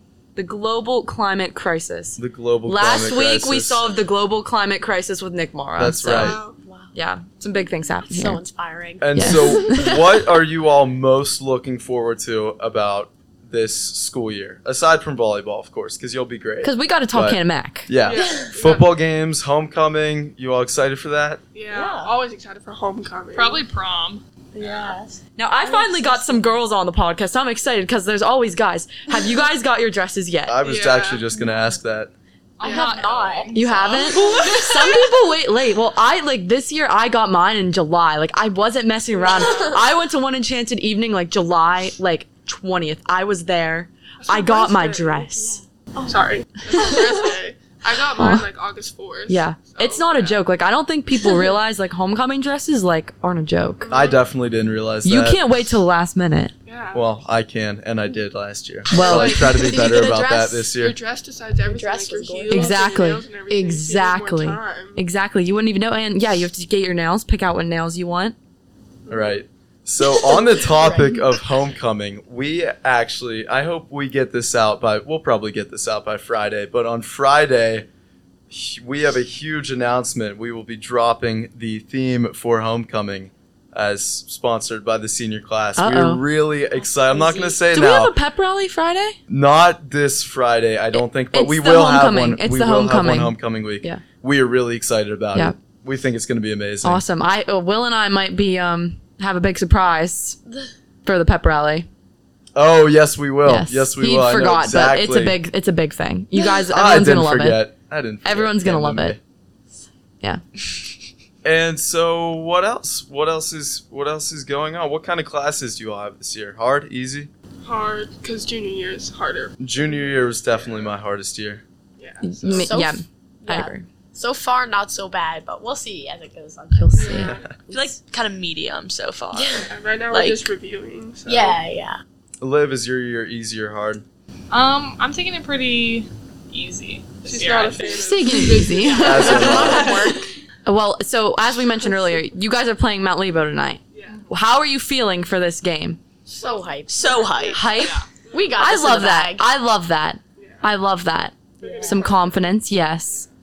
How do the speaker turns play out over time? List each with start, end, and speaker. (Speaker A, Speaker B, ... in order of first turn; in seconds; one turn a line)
Speaker A: 0.3-6.3
Speaker B: 2.2-3.9
Speaker B: 5.8-6.4
Speaker C: 6.2-6.6
Speaker D: 6.2-6.9
Speaker A: 6.9-8.4
Speaker D: 8.1-10.0
Speaker B: 9.0-21.4
Speaker A: 9.1-10.0
Speaker A: 16.6-17.9
Speaker C: 18.0-18.9
Speaker D: 18.1-18.6
Speaker C: 21.5-23.6
Speaker D: 21.7-22.1
Speaker E: 23.3-24.2
Speaker D: 24.5-26.4
Speaker A: 25.4-30.6
Speaker B: 30.5-32.1
Speaker C: 30.6-31.3
Speaker E: 32.6-34.5
Speaker D: 32.6-34.7
Speaker A: 32.6-32.9
Speaker A: 33.5-45.6
Speaker D: 39.2-39.7
Speaker C: 44.2-45.3
Speaker D: 45.4-46.1
Speaker C: 46.0-50.4
Speaker D: 46.8-47.0
Speaker A: 48.2-48.4
Speaker A: 49.3-53.9
Speaker C: 53.8-54.2
Speaker B: 53.9-55.4
Speaker A: 55.0-56.5
Speaker C: 56.6-57.1
Speaker B: 56.9-61.0
Speaker A: 58.9-60.1
Speaker C: 58.9-60.0
Speaker D: 59.2-60.5
Speaker C: 60.8-65.0
Speaker D: 61.6-63.0
Speaker A: 62.5-68.3
Speaker C: 69.1-69.4
Speaker B: 69.1-77.8
Speaker D: 70.4-71.2
Speaker B: 78.5-88.2
Speaker A: 85.8-86.2
Speaker D: 86.7-87.7
Speaker A: 87.7-89.2
Speaker B: 89.3-97.0
Speaker A: 90.9-94.0
Speaker A: 95.3-95.6
Speaker A: 96.8-100.4
Speaker A: 101.0-101.9
Speaker B: 102.5-105.4
Speaker A: 103.4-107.7
Speaker B: 106.7-109.2
Speaker A: 108.2-109.2
Speaker B: 111.4-117.3
Speaker C: 117.6-121.0
Speaker B: 119.6-121.6
Speaker C: 122.0-122.7
Speaker A: 122.2-123.9
Speaker D: 122.4-128.0
Speaker A: 126.7-127.4
Speaker C: 126.9-127.4
Speaker F: 127.7-130.5
Speaker D: 129.3-129.7
Speaker C: 129.7-131.6
Speaker D: 131.3-132.0
Speaker B: 132.4-134.0
Speaker E: 134.5-138.1
Speaker C: 137.2-140.2
Speaker A: 137.9-146.0
Speaker D: 138.8-140.2
Speaker B: 138.9-140.0
Speaker C: 143.9-144.2
Speaker D: 146.3-147.7
Speaker C: 146.3-146.7
Speaker F: 146.9-147.7
Speaker C: 147.2-147.6
Speaker A: 147.5-148.0
Speaker E: 147.8-148.1
Speaker C: 148.1-148.6
Speaker D: 148.3-149.5
Speaker A: 148.6-153.3
Speaker C: 150.4-150.6
Speaker D: 151.6-152.3
Speaker C: 151.6-152.4